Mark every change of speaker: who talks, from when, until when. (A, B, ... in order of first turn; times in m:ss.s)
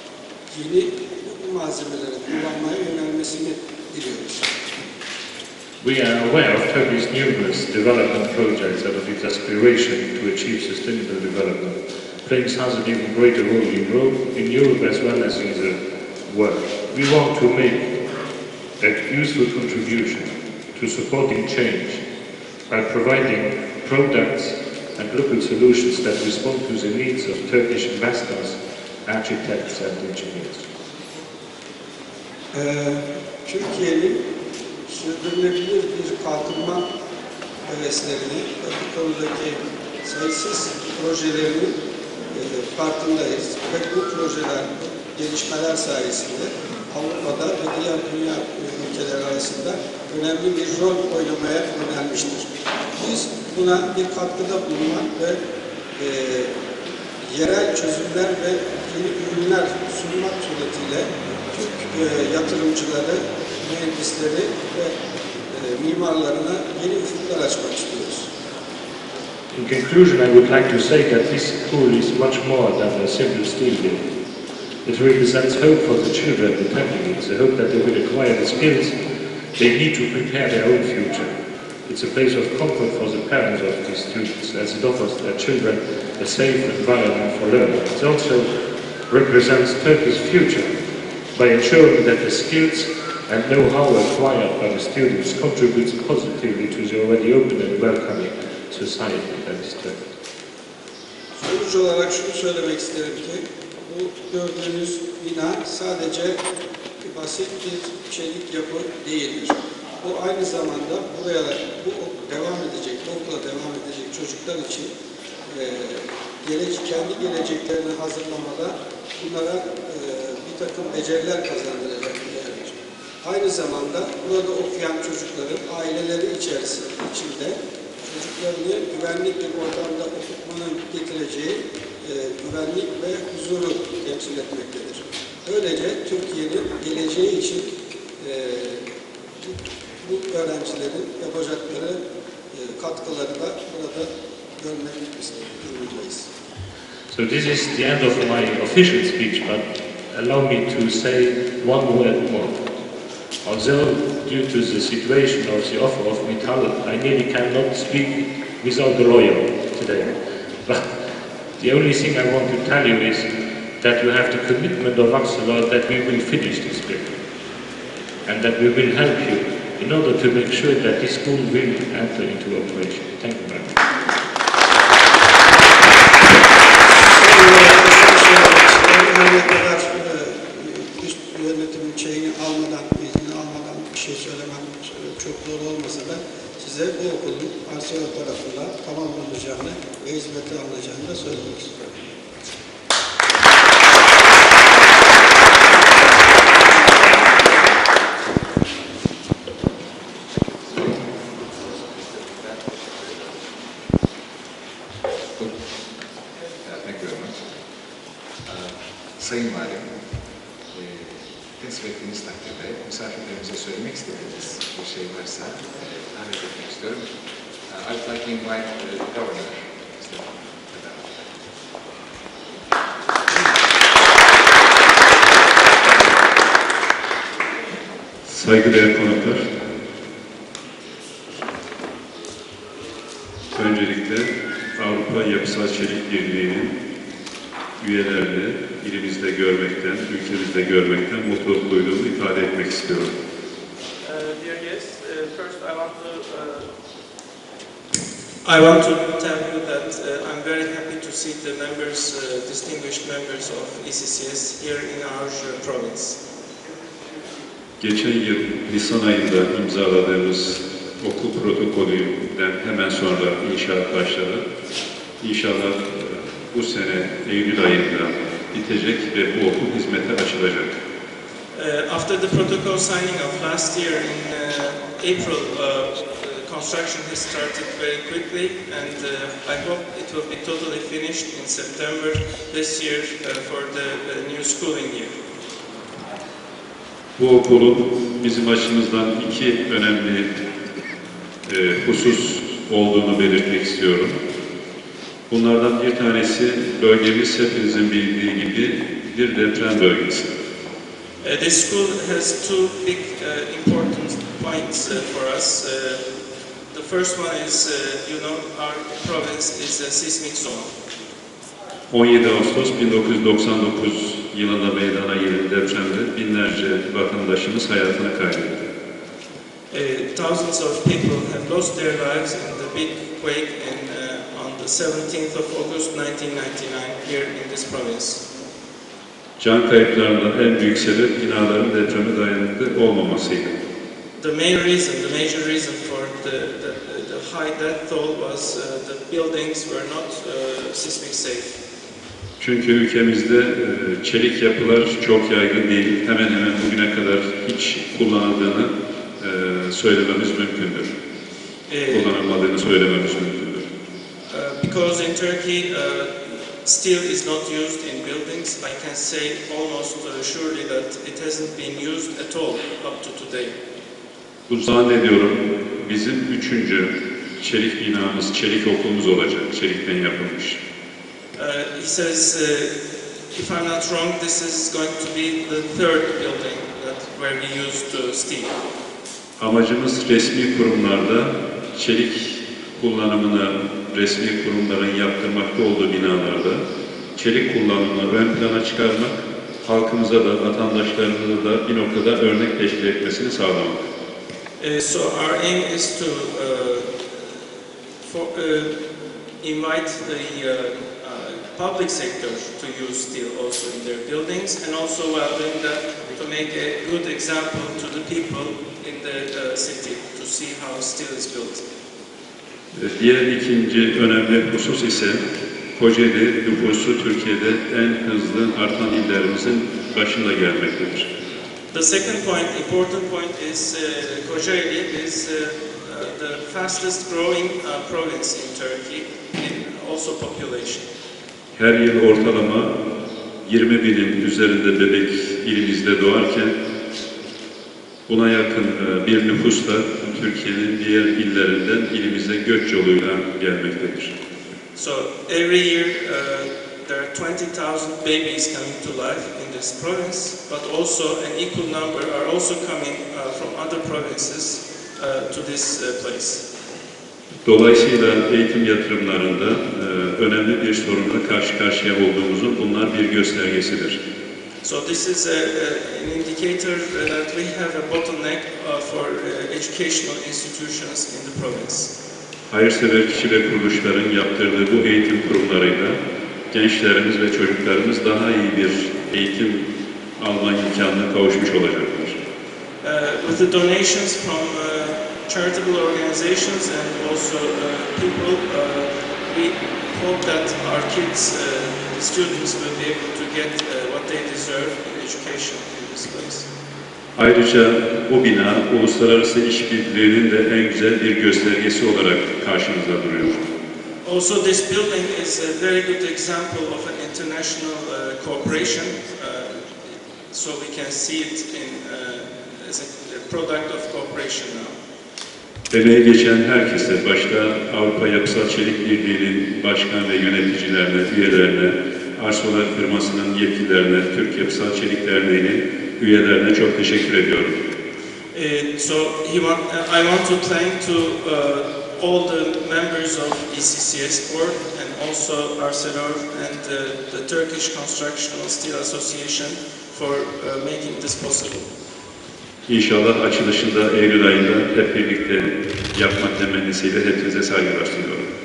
0:00.5-0:04.4 A
0:05.8-0:17.9 B
0:18.8-0:22.0 B
0:22.7-0:30.6 B
0:32.5-0:34.2 A
0:34.9-0:36.9 A
0:37.6-0:41.8 A
0:42.3-0:55.4 A
0:56.0-0:56.5 A
0:57.2-1:04.9 A
1:05.5-1:08.3 A
1:09.5-1:14.0 B
1:14.8-1:18.9 B
1:19.6-1:21.3 B
1:21.9-1:28.5 B
1:29.1-1:30.7 B
1:31.3-1:40.0 B
1:41.4-1:46.4 A
1:47.0-1:54.9 A
1:55.5-2:18.8 A
2:19.4-2:22.0 A
2:22.5-2:26.3 A
2:27.1-2:32.7 B
2:33.4-2:40.1 B
2:41.6-2:47.1 B
2:48.2-2:53.8 B
2:57.1-3:12.0 A
3:16.7-3:17.5 C
3:20.3-3:23.7 C
3:25.4-3:26.1 C
3:26.6-3:27.6 C
3:28.4-3:30.1 C
3:30.7-3:41.5 C
3:48.2-3:49.5 D
3:53.5-3:56.8 D
3:57.8-4:03.1 D
4:04.0-4:06.7 E
4:08.4-4:16.2 E
4:17.8-4:24.5 D
4:25.2-4:30.8 D
4:31.5-4:45.1 E
4:47.2-4:50.3 D
4:51.5-4:54.2 D
4:55.3-5:00.3 D
5:01.2-5:06.0 E
5:06.7-5:10.7 E
5:11.9-5:18.6 D
5:19.7-5:28.2 E
5:29.4-5:33.6 D
5:34.2-5:41.6 E
5:42.4-5:50.9 D
5:51.7-5:52.1 E
5:51.9-5:53.7 D
5:54.3-6:03.6 E
6:04.5-6:10.6 D
6:11.4-6:12.8 E
6:13.3-6:18.5 E
6:19.4-6:26.6 D
6:27.2-6:33.8 D
6:34.6-6:36.9 E
6:38.0-6:38.7 E
6:39.4-6:51.6 E
6:52.7-6:55.2 D
6:55.8-7:01.1 D
7:01.7-7:10.9 E
7:11.5-7:12.8 D
7:13.4-7:16.5 D
7:18.1-7:24.1 D
7:24.8-7:36.4 E
7:37.4-7:44.0 D
7:44.6-7:51.9 E
7:52.5-7:56.0 D
7:56.5-8:02.2 D
8:02.8-8:16.5 E
8:17.1-8:23.4 D
8:24.0-8:34.8 E
8:35.7-8:47.6 D
8:48.3-9:01.7 E
9:02.7-9:08.3 D